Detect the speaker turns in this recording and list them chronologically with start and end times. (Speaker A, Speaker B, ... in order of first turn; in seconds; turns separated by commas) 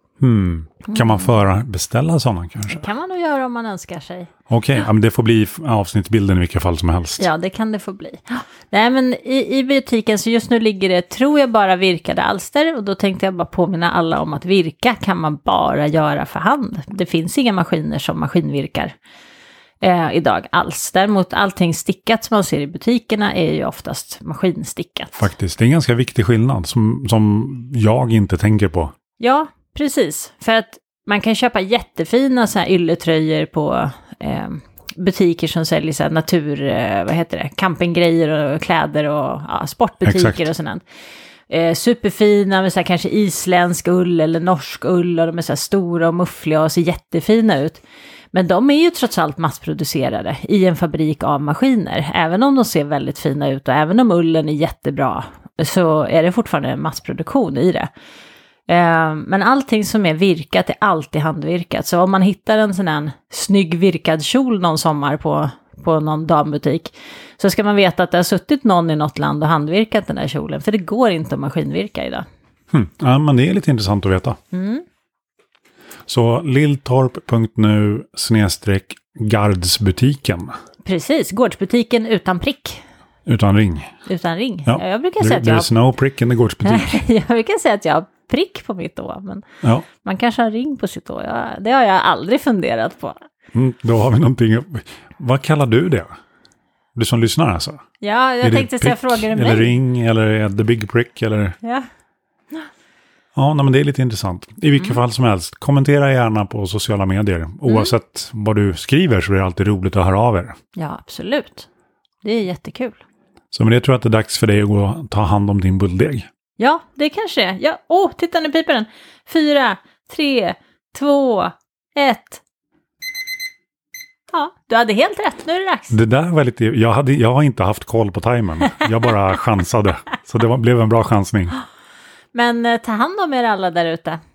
Speaker A: 0.2-2.9, Speaker B: 0.9-1.2, Speaker B: 2.7-4.3, Speaker A: 4.5-7.2, Speaker B: 7.2-18.9, Speaker B: 19.8-25.3, Speaker A: 25.2-28.9, Speaker B: 29.2-40.8, Speaker A: 40.0-40.4, Speaker B: 41.5-47.8, Speaker B: 48.3-57.9, Speaker B: 58.7-72.2, Speaker A: 72.7-74.4, Speaker B: 74.5-74.8, Speaker A: 76.1-80.5, Speaker B: 80.8-82.8, Speaker A: 83.2-83.9, Speaker B: 84.0-85.7, Speaker A: 84.7-87.0, Speaker B: 86.6-89.4, Speaker B: 90.0-93.2, Speaker A: 93.5-96.1, Speaker A: 97.0-97.8, Speaker B: 98.0-99.7, Speaker A: 98.4-101.5, Speaker A: 103.3-110.5, Speaker B: 107.7-107.9, Speaker B: 110.8-111.7, Speaker B: 112.2-113.0, Speaker A: 113.5-116.3, Speaker B: 116.6-122.4, Speaker B: 124.3-126.0, Speaker A: 125.9-131.6, Speaker B: 132.3-134.2